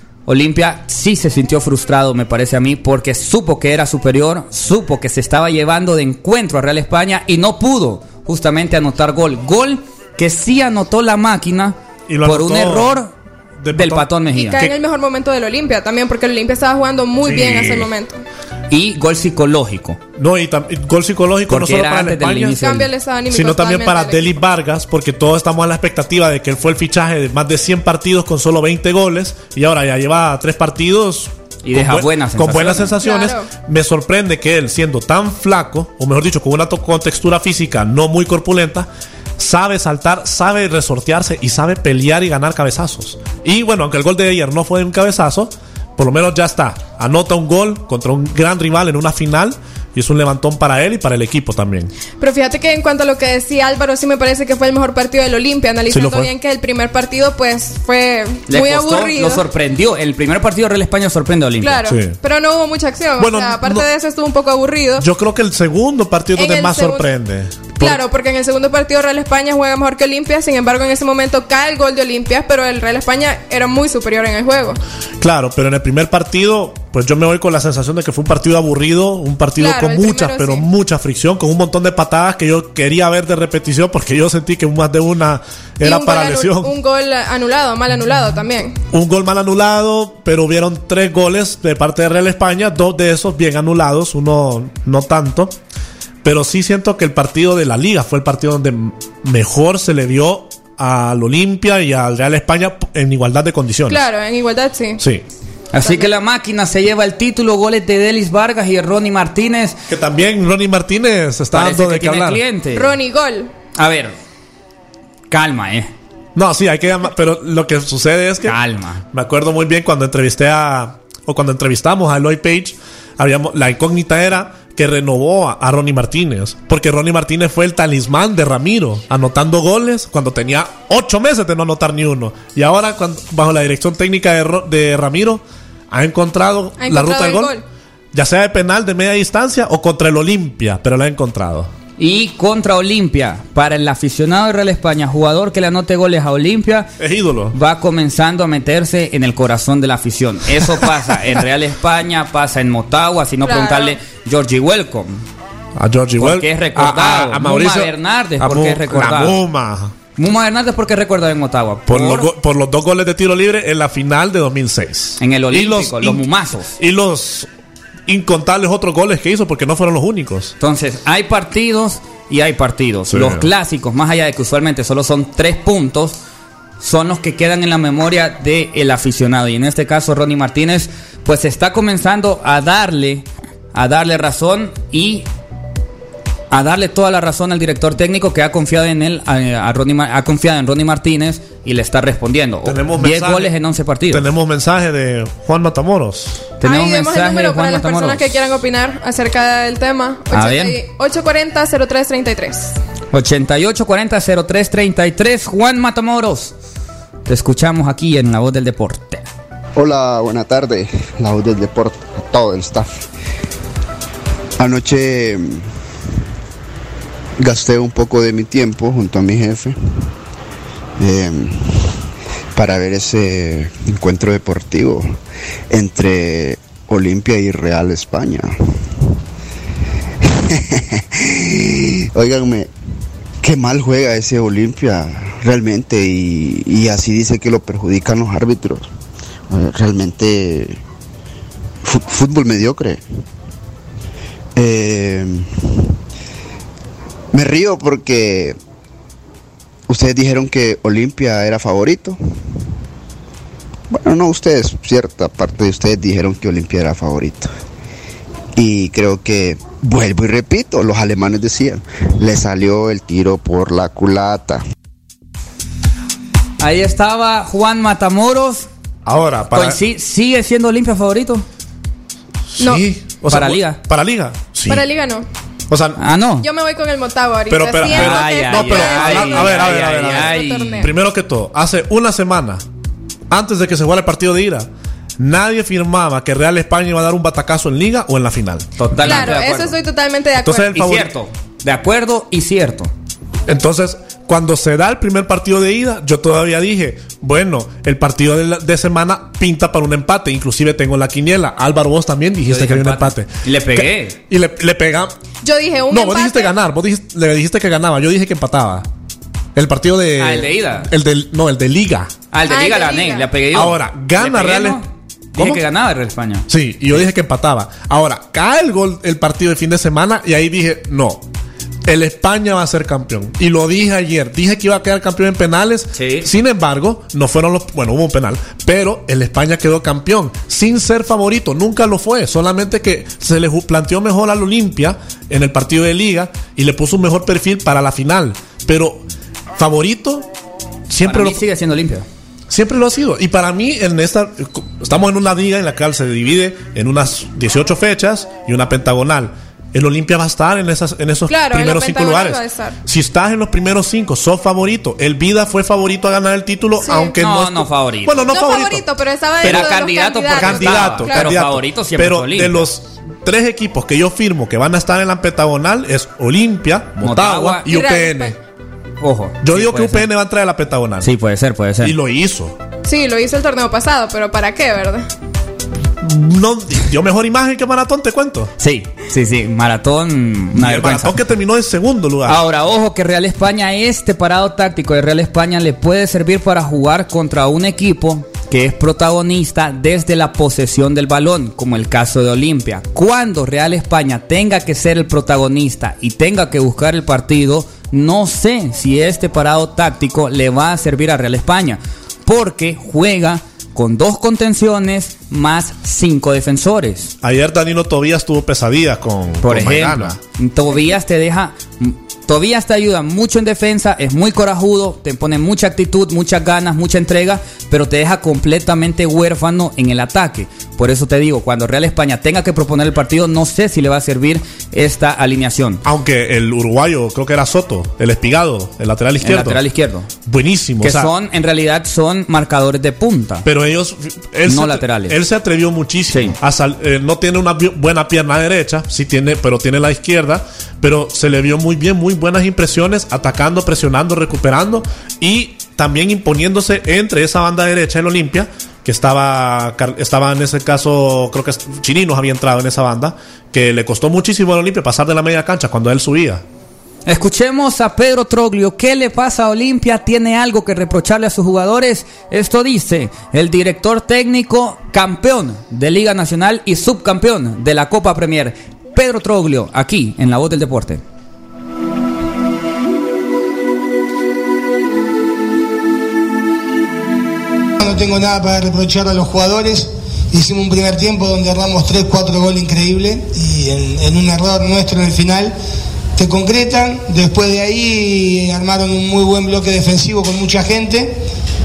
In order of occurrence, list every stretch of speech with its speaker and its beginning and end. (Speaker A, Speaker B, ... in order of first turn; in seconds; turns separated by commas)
Speaker A: 0.2-13.1, Speaker B: 12.1-13.0, Speaker B: 13.6-14.7, Speaker A: 13.7-14.6, Speaker C: 14.3-18.2, Speaker B: 17.2-17.9, Speaker A: 18.7-20.0, Speaker B: 20.1-22.6, Speaker A: 21.5-22.9, Speaker C: 22.6-24.3, Speaker B: 23.3-51.9, Speaker A: 31.6-33.0, Speaker C: 33.0-33.5, Speaker C: 52.2-59.4, Speaker B: 55.9-56.3, Speaker A: 58.5-61.8, Speaker C: 61.6-65.0, Speaker B: 61.9-62.2, Speaker B: 63.2-63.9, Speaker B: 65.0-68.0, Speaker C: 66.3-67.1, Speaker C: 67.8-74.8, Speaker B: 75.2-86.7, Speaker C: 79.6-80.7, Speaker C: 85.8-88.8, Speaker B: 88.9-95.6, Speaker B: 96.2-104.0, Speaker C: 103.9-105.0, Speaker B: 105.0-105.2, Speaker A: 105.7-109.8, Speaker C: 105.8-106.1, Speaker B: 109.9-112.4, Speaker A: 111.5-112.9, Speaker C: 112.7-113.5, Speaker A: 113.8-114.1, Speaker A: 115.3-115.9, Speaker B: 116.3-118.6, Speaker A: 118.4-119.0, Speaker B: 119.1-137.5, Speaker C: 136.8-137.6, Speaker B: 138.1-141.7, Speaker A: 142.0-146.9, Speaker B: 147.0-147.5, Speaker A: 147.5-155.2, Speaker B: 150.7-151.1, Speaker C: 153.4-154.0, Speaker B: 155.8-159.9, Speaker A: 156.2-159.4, Speaker A: 160.2-162.3, Speaker B: 161.9-166.2, Speaker A: 165.2-166.7, Speaker B: 166.8-167.5, Speaker B: 168.1-170.5, Speaker A: 170.6-176.2, Speaker B: 173.1-173.5, Speaker A: 176.8-185.2, Speaker A: 186.5-194.2, Speaker B: 192.6-193.5, Speaker B: 194.1-196.5, Speaker A: 196.6-198.4, Speaker C: 196.6-202.8, Speaker A: 200.3-200.8, Speaker A: 203.1-206.5, Speaker A: 207.3-209.3, Speaker D: 209.8-213.0, Speaker D: 214.6-215.6, Speaker D: 217.4-219.8, Speaker D: 221.0-221.9, Speaker D: 222.5-225.1, Speaker D: 225.7-228.5, Speaker D: 230.2-232.7, Speaker D: 233.4-238.9, Speaker D: 239.5-240.8, Speaker D: 241.8-243.0, Speaker D: 244.6-245.9, Speaker D: 247.3-248.6, Speaker D: 249.9-252.2, Speaker D: 253.9-257.5, Speaker D: 258.6-264.6, Speaker A: 266.6-268.7, Speaker B: 269.0-269.8, Speaker A: 269.5-271.4, Speaker B: 272.5-274.8, Speaker A: 273.3-273.8, Speaker C: 274.7-275.2, Speaker B: 275.7-276.0, Speaker A: 276.0-276.4, Speaker C: 276.4-280.9, Speaker B: 277.5-282.6, Speaker A: 277.9-280.9, Speaker B: 283.3-289.3, Speaker A: 288.8-289.7, Speaker C: 289.0-290.7, Speaker B: 290.4-291.1, Speaker A: 290.7-292.9, Speaker B: 293.5-305.1, Speaker A: 302.5-304.2, Speaker C: 305.4-306.5, Speaker B: 305.9-308.9, Speaker B: 309.5-312.1, Speaker A: 310.2-310.9, Speaker A: 312.3-317.0, Speaker C: 312.5-313.3, Speaker B: 313.5-314.8, Speaker B: 315.3-315.6, Speaker B: 316.5-321.2, Speaker B: 321.9-339.0, Speaker A: 325.9-326.3, Speaker B: 339.5-340.3, Speaker B: 340.9-341.4, Speaker A: 341.0-342.1, Speaker B: 342.5-358.8, Speaker C: 351.3-352.8, Speaker C: 356.8-357.1, Speaker A: 357.2-358.2, Speaker C: 358.3-361.3, Speaker B: 359.4-368.3, Speaker A: 359.4-362.6, Speaker A: 367.0-367.7, Speaker C: 367.6-368.4, Speaker A: 369.0-370.1, Speaker B: 369.4-371.1, Speaker A: 371.0-371.9, Speaker B: 371.8-372.6, Speaker C: 372.8-375.1, Speaker B: 376.0-378.5, Speaker A: 378.6-381.2, Speaker B: 380.5-382.4, Speaker A: 382.3-407.1, Speaker B: 407.2-410.2, Speaker A: 409.4-425.8, Speaker B: 425.8-429.6, Speaker A: 429.2-430.1, Speaker B: 430.2-431.1, Speaker A: 430.8-433.4, Speaker B: 433.4-456.4, Speaker A: 434.4-435.2, Speaker A: 436.1-436.4, Speaker A: 457.1-471.0, Speaker E: 477.8-485.5, Speaker E: 486.1-491.2